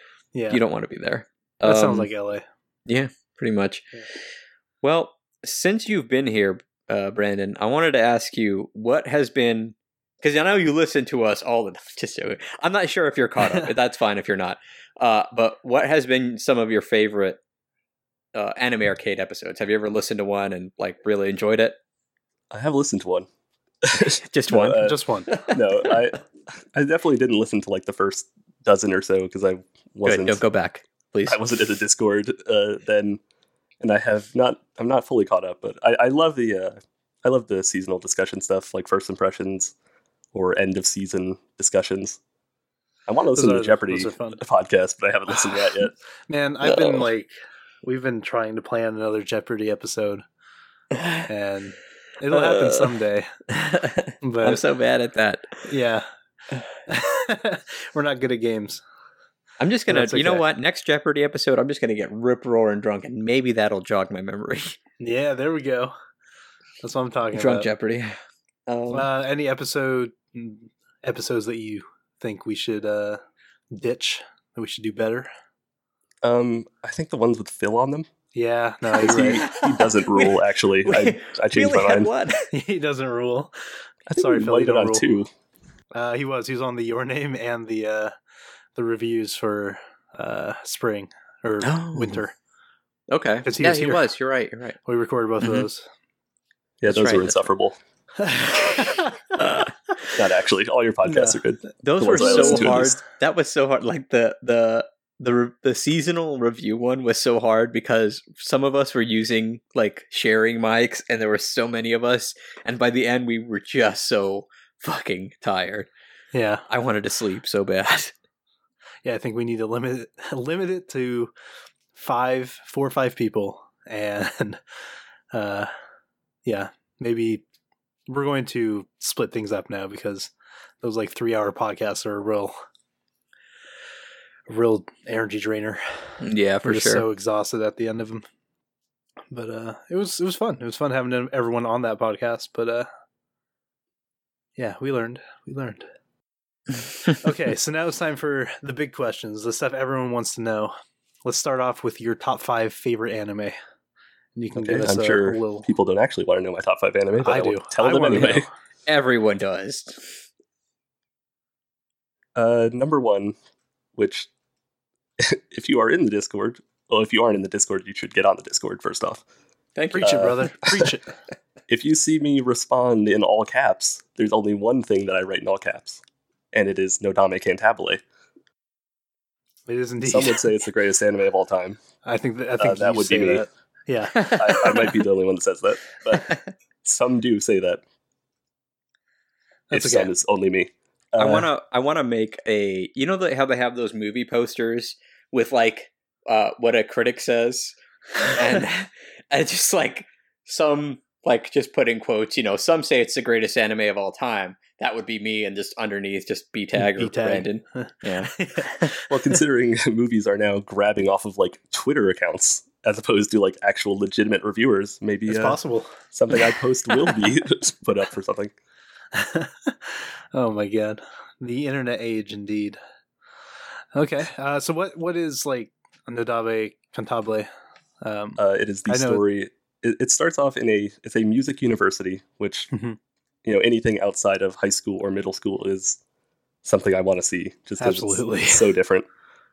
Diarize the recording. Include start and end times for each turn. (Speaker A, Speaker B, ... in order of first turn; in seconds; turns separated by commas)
Speaker A: 0.3-0.6, Speaker B: 0.5-2.1, Speaker A: 1.6-2.5, Speaker B: 2.9-3.9, Speaker B: 4.8-17.4, Speaker B: 18.3-21.8, Speaker C: 22.5-23.3, Speaker C: 23.8-30.4, Speaker B: 24.0-26.0, Speaker A: 24.7-25.4, Speaker B: 30.1-31.4, Speaker C: 31.3-33.2, Speaker C: 33.8-39.7, Speaker C: 40.3-42.2, Speaker C: 43.1-45.9, Speaker A: 43.3-44.4, Speaker A: 46.3-47.3, Speaker A: 47.8-50.2, Speaker B: 50.9-51.3, Speaker A: 51.3-53.4, Speaker B: 52.3-53.0, Speaker B: 53.5-55.6, Speaker A: 54.2-54.6, Speaker A: 55.6-56.1, Speaker A: 56.9-58.8, Speaker B: 59.6-64.8, Speaker A: 59.9-60.4, Speaker A: 65.0-65.9, Speaker A: 66.8-67.7, Speaker B: 67.3-69.1, Speaker A: 68.9-73.2, Speaker A: 73.7-75.3, Speaker C: 76.2-78.1, Speaker A: 78.3-79.5, Speaker C: 79.0-82.1, Speaker B: 79.4-82.5, Speaker A: 82.5-83.5, Speaker C: 84.1-85.3, Speaker A: 84.2-85.2, Speaker A: 85.9-88.1, Speaker A: 88.7-92.3, Speaker B: 91.6-92.2, Speaker B: 93.1-94.8, Speaker A: 93.4-94.1, Speaker A: 94.8-95.9, Speaker B: 95.4-95.7, Speaker C: 96.8-97.8, Speaker B: 96.9-97.4, Speaker A: 98.2-99.0, Speaker B: 98.6-100.2, Speaker C: 99.4-103.0, Speaker A: 101.0-101.4, Speaker B: 101.8-115.9, Speaker A: 102.1-102.8, Speaker A: 116.3-116.7, Speaker B: 116.7-118.1, Speaker A: 119.0-121.3, Speaker A: 121.9-124.6, Speaker A: 125.3-125.7, Speaker A: 126.5-127.4, Speaker A: 128.1-132.6, Speaker A: 134.5-138.2, Speaker B: 136.2-137.0, Speaker A: 139.3-142.9, Speaker A: 144.6-145.9, Speaker A: 147.2-153.6, Speaker A: 154.3-155.7, Speaker C: 154.6-158.4, Speaker A: 157.2-158.5, Speaker B: 158.9-160.2, Speaker C: 162.3-163.3, Speaker C: 163.9-164.3, Speaker C: 165.2-169.2, Speaker B: 169.8-170.2, Speaker A: 169.9-171.1, Speaker C: 170.0-170.9, Speaker C: 171.7-176.0, Speaker C: 176.5-178.0, Speaker A: 179.7-180.4, Speaker C: 180.0-181.8, Speaker A: 182.0-184.6, Speaker C: 182.6-183.4, Speaker B: 184.1-184.9, Speaker C: 184.3-187.8, Speaker A: 189.7-190.1, Speaker C: 189.7-191.4, Speaker B: 191.2-208.9, Speaker A: 206.8-208.9, Speaker C: 209.1-215.6, Speaker A: 215.3-216.4, Speaker C: 216.1-218.5, Speaker A: 219.1-222.8, Speaker A: 223.9-227.5, Speaker A: 228.0-229.2, Speaker C: 228.4-232.7, Speaker A: 232.7-233.0, Speaker C: 233.4-236.0, Speaker C: 236.6-239.1, Speaker A: 237.8-238.7